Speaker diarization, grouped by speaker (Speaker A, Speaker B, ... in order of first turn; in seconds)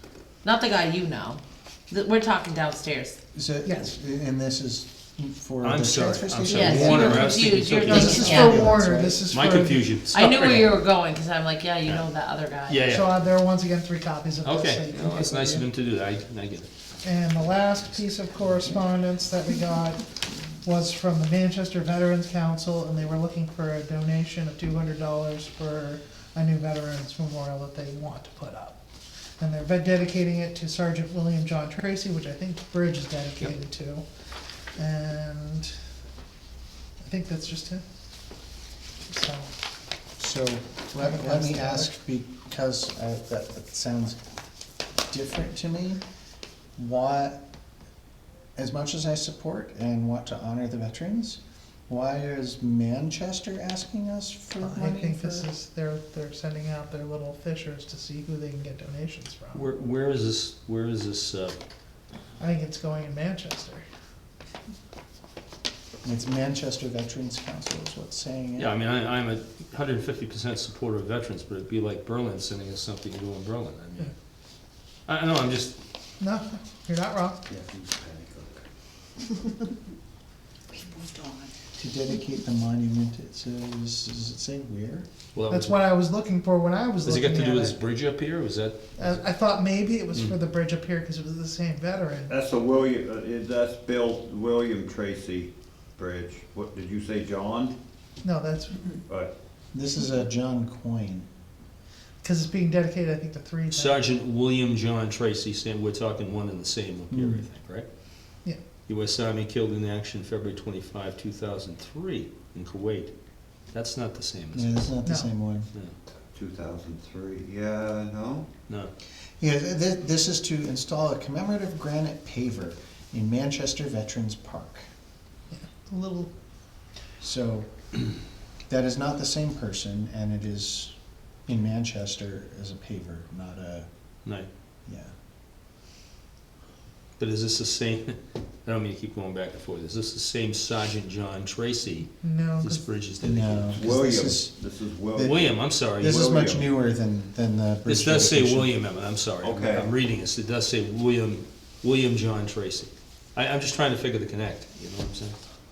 Speaker A: 0.4-3.2, 6.5-8.6, 10.1-12.8
Speaker B: 3.3-9.3, 40.2-44.2, 45.1-46.0, 46.8-47.4, 48.6-55.5, 66.0-68.7, 81.8-85.1, 99.7-101.3, 107.1-107.5, 114.5-115.7, 119.4-124.9, 127.2-127.7, 128.7-130.9, 131.5-133.9, 134.9-135.1, 143.2-144.5, 146.0-148.7
Speaker C: 5.6-8.6, 9.3-10.8, 12.7-13.1, 14.4-16.7, 59.5-61.6, 68.6-74.1, 75.1-75.8, 85.3-85.8, 87.0-88.9, 103.7-107.9, 108.9-113.1, 113.7-114.9, 137.2-143.8, 145.2-146.3, 147.9-155.4
Speaker D: 7.9-9.9, 12.9-15.7, 17.0-20.1, 20.6-28.8, 29.4-34.0, 34.8-35.8, 37.0-37.8, 39.1-39.5, 41.0-41.9, 54.6-59.7, 62.4-63.9, 76.2-77.4, 85.5-87.8, 89.0-92.3, 98.2-98.8, 102.2-104.0, 115.0-115.3, 125.5-126.3, 142.2-142.8
Speaker E: 77.5-78.6, 92.3-97.8, 116.3-118.5, 143.7-145.4, 146.0-146.7, 149.4-149.9